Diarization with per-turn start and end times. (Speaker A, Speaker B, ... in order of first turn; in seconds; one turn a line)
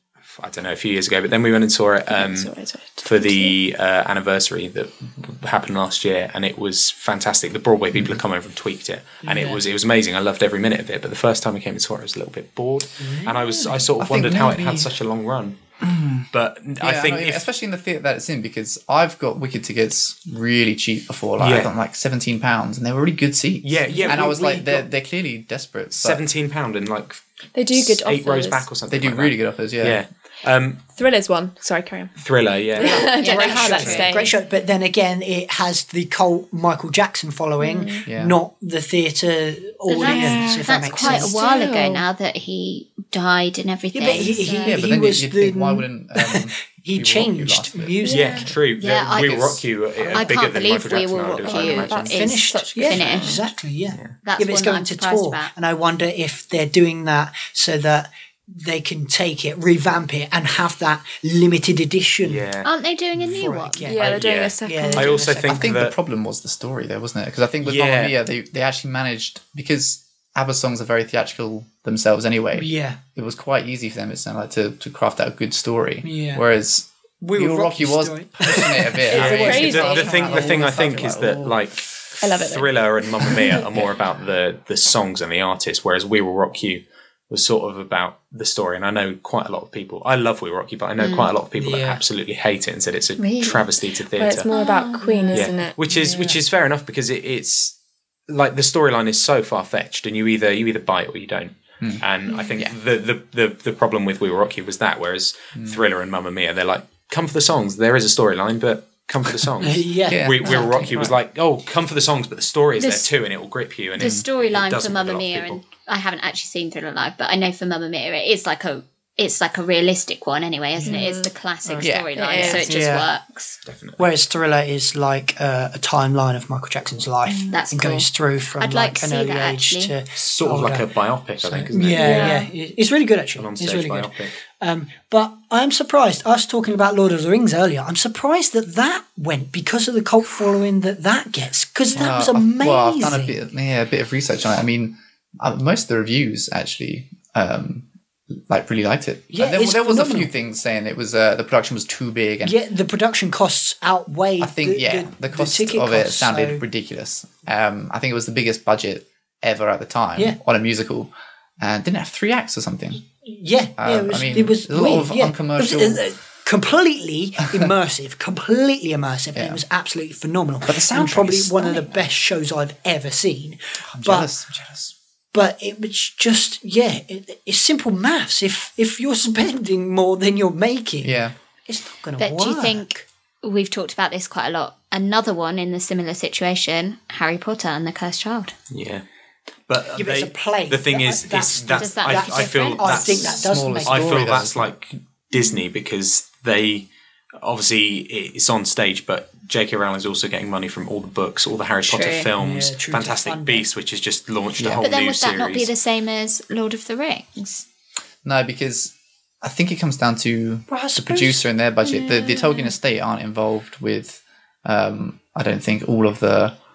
Speaker A: 0.3-15.6
Speaker B: 2.1-3.5
Speaker C: 9.2-9.6
Speaker C: 13.0-13.8
Speaker D: 14.0-14.9
Speaker D: 15.8-16.3
Speaker A: 16.3-17.4
Speaker D: 16.8-26.2
Speaker A: 21.4-21.7
Speaker A: 23.6-24.8
Speaker C: 23.9-24.3
Speaker A: 25.9-30.8
Speaker B: 27.5-28.7
Speaker D: 28.9-30.0
Speaker B: 30.9-32.2
Speaker A: 32.2-33.2
Speaker B: 32.8-34.3
Speaker C: 32.8-41.3
Speaker E: 33.2-34.2
Speaker B: 37.6-38.1
Speaker D: 38.0-38.3
Speaker E: 39.9-44.8
Speaker B: 40.0-42.0
Speaker C: 43.9-48.5
Speaker D: 44.1-48.0
Speaker A: 48.0-52.1
Speaker B: 48.1-48.5
Speaker E: 48.8-49.5
Speaker D: 49.1-49.6
Speaker E: 50.0-53.4
Speaker B: 51.4-53.3
Speaker C: 52.1-62.5
Speaker E: 54.2-55.5
Speaker A: 62.2-62.7
Speaker E: 62.6-63.9
Speaker C: 63.2-64.0
Speaker B: 63.9-65.2
Speaker A: 64.0-65.9
Speaker C: 64.6-65.7
Speaker D: 65.5-81.6
Speaker A: 67.6-68.2
Speaker C: 72.5-73.0
Speaker C: 76.0-76.5
Speaker C: 77.2-79.0
Speaker B: 79.1-80.6
Speaker A: 79.1-94.5
Speaker B: 82.2-83.6
Speaker E: 91.0-91.3
Speaker C: 91.5-92.0
Speaker E: 93.2-93.7
Speaker B: 94.2-96.2
Speaker E: 94.5-95.5
Speaker A: 95.3-97.7
Speaker A: 98.3-115.6
Speaker C: 109.6-111.0
Speaker D: 110.1-111.1
Speaker E: 112.8-113.1
Speaker E: 114.0-123.6
Speaker C: 120.8-121.0
Speaker B: 120.8-121.3
Speaker D: 121.8-122.1
Speaker B: 122.1-122.7
Speaker C: 122.4-123.1
Speaker A: 123.7-124.0
Speaker C: 124.0-130.9
Speaker E: 127.5-129.9
Speaker A: 130.2-132.2
Speaker C: 131.4-143.3
Speaker B: 131.9-132.5
Speaker A: 133.4-134.3
Speaker D: 141.9-147.9
Speaker D: 148.4-152.6
Speaker C: 149.3-150.3
Speaker C: 152.4-156.6
Speaker D: 154.4-163.0
Speaker C: 163.2-174.3
Speaker D: 163.8-166.0
Speaker D: 169.3-169.6
Speaker D: 170.6-171.8
Speaker D: 173.9-174.9
Speaker C: 175.3-183.0
Speaker D: 181.0-181.3
Speaker E: 182.2-188.5
Speaker A: 188.7-189.0
Speaker A: 189.7-196.9
Speaker C: 189.9-194.3
Speaker E: 191.8-193.5
Speaker D: 193.4-194.7
Speaker E: 195.3-195.6
Speaker A: 197.4-205.7
Speaker E: 201.8-202.3
Speaker C: 202.4-203.7
Speaker D: 204.6-204.8
Speaker E: 204.8-207.6
Speaker D: 208.2-216.6
Speaker C: 210.7-211.4
Speaker E: 211.8-212.7